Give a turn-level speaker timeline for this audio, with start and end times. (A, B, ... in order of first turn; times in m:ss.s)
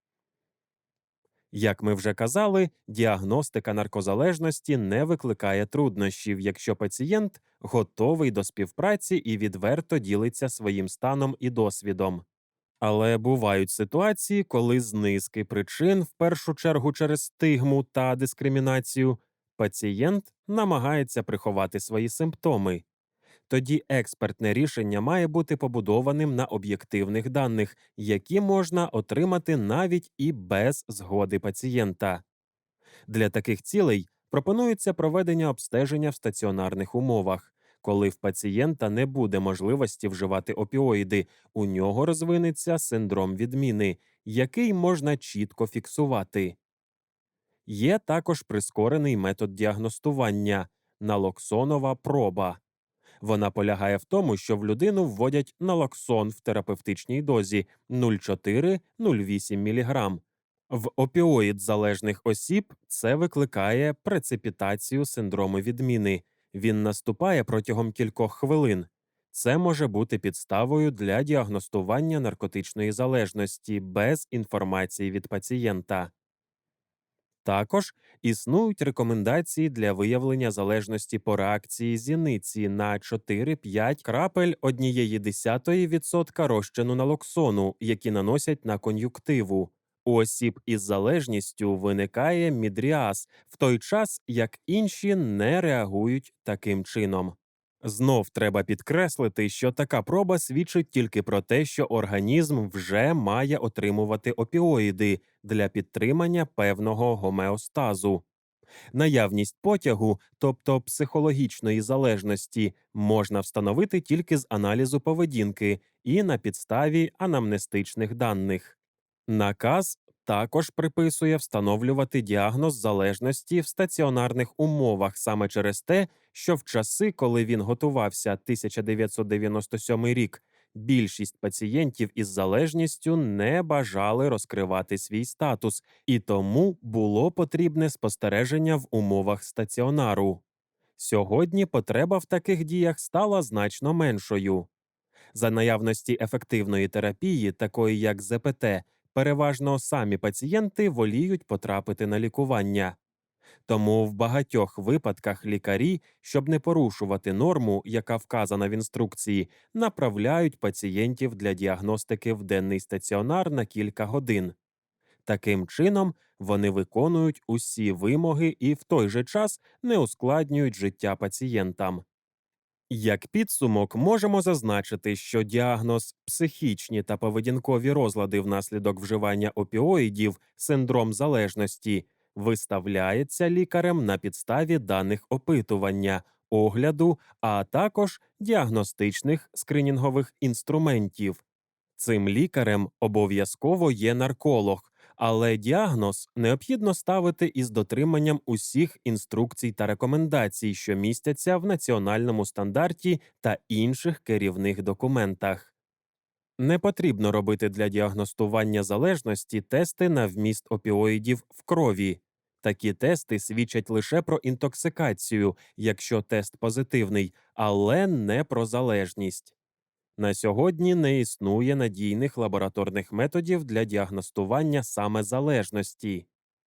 0:01.5-0:12.2 A
0:12.8-0:22.8 A
0:23.5-0:32.2 A
0:33.1-0:46.6 A
0:47.7-0:52.6 A
0:53.2-1:16.1 A
1:17.4-1:48.2 A
1:48.9-1:58.8 A
1:59.3-2:20.4 A
2:21.0-2:24.7 A
2:25.3-2:33.0 A
2:33.7-2:44.6 A
2:45.3-2:52.0 A
2:52.9-3:11.4 A
3:12.0-3:25.7 A
3:26.6-3:39.6 A
3:40.2-3:46.3 A